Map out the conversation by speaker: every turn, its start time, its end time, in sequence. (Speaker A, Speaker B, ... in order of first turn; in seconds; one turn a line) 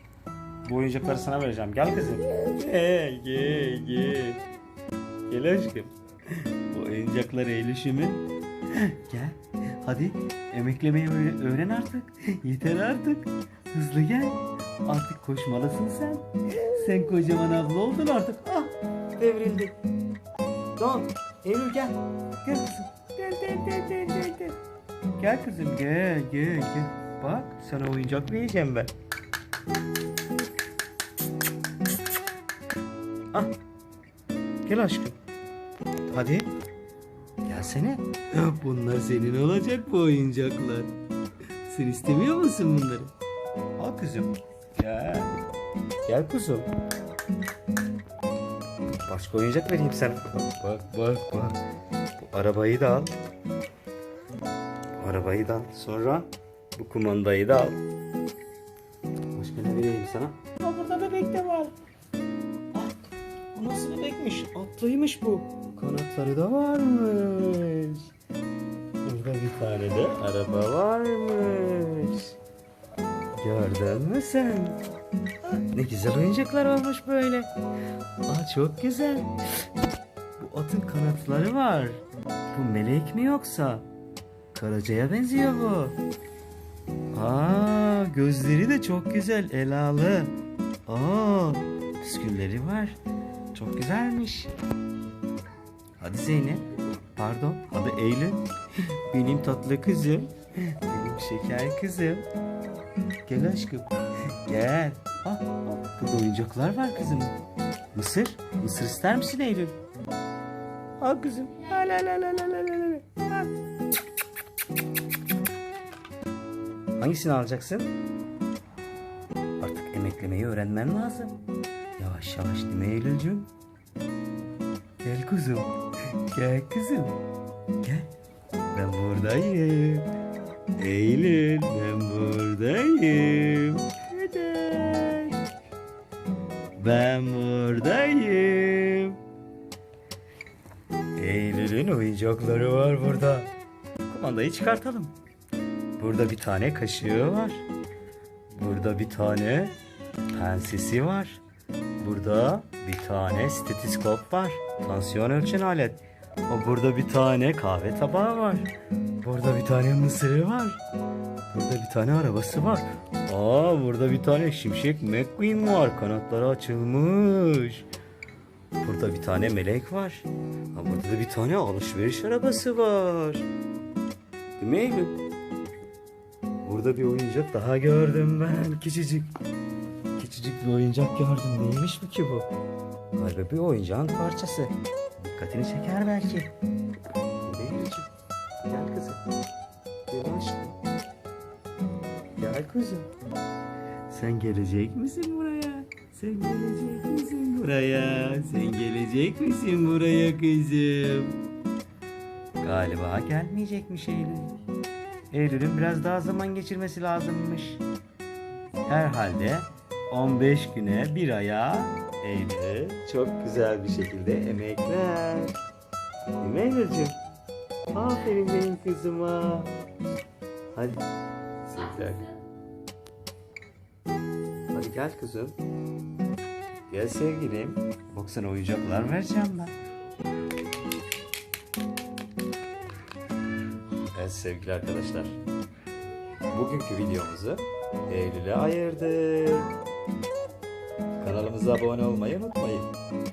Speaker A: 0.7-4.4
Speaker A: 5.3-19.8
Speaker A: 20.8-24.6
Speaker A: 25.2-28.9
Speaker A: 34.6-35.2
Speaker A: 36.1-36.5
Speaker A: 37.5-41.0
Speaker A: 41.6-43.1
Speaker A: 43.8-45.3
Speaker A: 46.1-46.7
Speaker A: 49.1-51.6
Speaker A: 52.2-53.1
Speaker A: 55.0-57.8
Speaker A: 59.3-61.7
Speaker A: 62.7-63.0
Speaker A: 63.5-68.1
Speaker A: 69.0-72.3
Speaker A: 73.4-74.8
Speaker A: 75.7-77.5
Speaker A: 78.3-79.3
Speaker A: 80.4-83.9
Speaker A: 84.5-86.0
Speaker A: 87.1-90.3
Speaker A: 90.9-93.0
Speaker A: 93.5-94.5
Speaker A: 96.0-98.4
Speaker A: 99.1-102.3
Speaker A: 103.3-103.9
Speaker A: 104.4-107.4
Speaker A: 107.9-109.8
Speaker A: 111.0-113.5
Speaker A: 117.0-117.9
Speaker A: 119.6-121.3
Speaker A: 122.0-123.5
Speaker A: 125.0-125.7
Speaker A: 126.3-127.2
Speaker A: 127.8-128.1
Speaker A: 128.7-130.1
Speaker A: 130.8-135.4
Speaker A: 136.8-139.2
Speaker A: 141.2-143.5
Speaker A: 144.1-145.1
Speaker A: 146.0-147.7
Speaker A: 148.5-149.8
Speaker A: 150.3-151.4
Speaker A: 152.0-158.7
Speaker A: 159.2-160.8
Speaker A: 161.5-167.8
Speaker A: 168.8-173.5
Speaker A: 174.6-175.1
Speaker A: 176.7-179.3
Speaker A: 180.2-182.5
Speaker A: 183.2-186.5
Speaker A: 187.4-188.1
Speaker A: 188.7-189.2
Speaker A: 190.1-190.8
Speaker A: 192.4-193.1
Speaker A: 194.1-201.4
Speaker A: 202.6-204.6
Speaker A: 205.3-207.8
Speaker A: 208.9-215.6
Speaker A: 216.4-217.2
Speaker A: 217.9-219.7
Speaker A: 220.7-221.0
Speaker A: 221.7-222.3
Speaker A: 224.7-225.6
Speaker A: 226.9-229.7
Speaker A: 234.1-235.4
Speaker A: 236.5-239.7
Speaker A: 241.2-242.9